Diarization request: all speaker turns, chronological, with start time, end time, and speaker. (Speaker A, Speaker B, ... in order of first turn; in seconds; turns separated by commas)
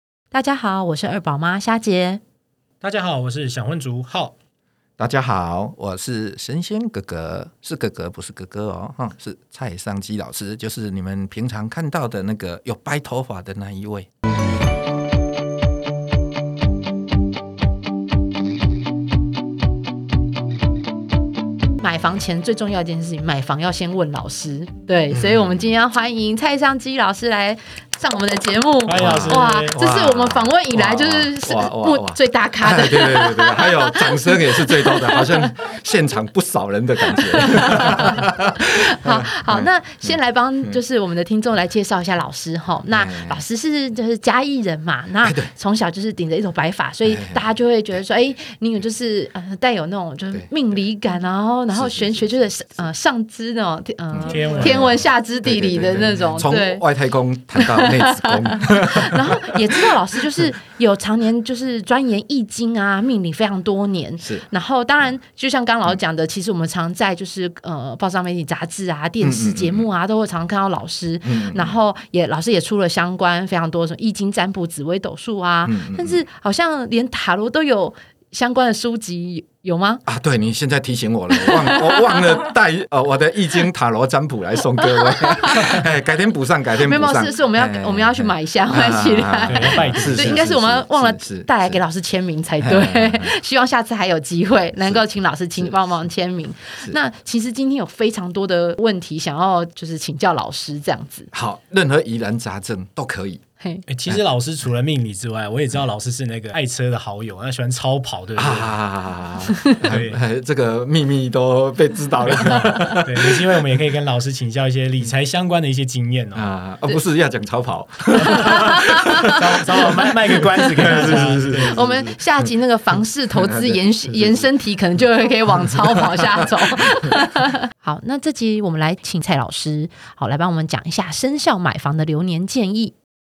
Speaker A: 0.3-2.2, Speaker B: 2.8-4.3, Speaker C: 5.0-14.1, Speaker A: 21.8-35.5, Speaker C: 25.1-25.7, Speaker B: 28.9-29.8, Speaker C: 28.9-40.8, Speaker A: 37.1-56.9, Speaker C: 42.9-43.4, Speaker C: 45.2-45.5, Speaker C: 47.1-47.5, Speaker C: 51.7-52.4, Speaker C: 54.1-60.6, Speaker B: 54.3-54.9, Speaker A: 57.6-80.0, Speaker C: 69.2-69.9, Speaker C: 71.2-71.8, Speaker C: 75.7-76.2, Speaker C: 80.1-91.8, Speaker A: 81.4-82.2, Speaker A: 84.8-85.8, Speaker A: 86.8-101.3, Speaker B: 89.5-90.4, Speaker C: 92.6-93.3, Speaker C: 101.3-103.4, Speaker B: 103.9-108.7, Speaker C: 108.4-113.4, Speaker B: 109.8-110.2, Speaker B: 112.3-116.4, Speaker C: 116.3-122.5, Speaker B: 118.3-118.6, Speaker A: 118.4-119.0, Speaker B: 119.3-121.8, Speaker A: 121.6-132.9, Speaker C: 123.3-124.5, Speaker C: 125.6-126.5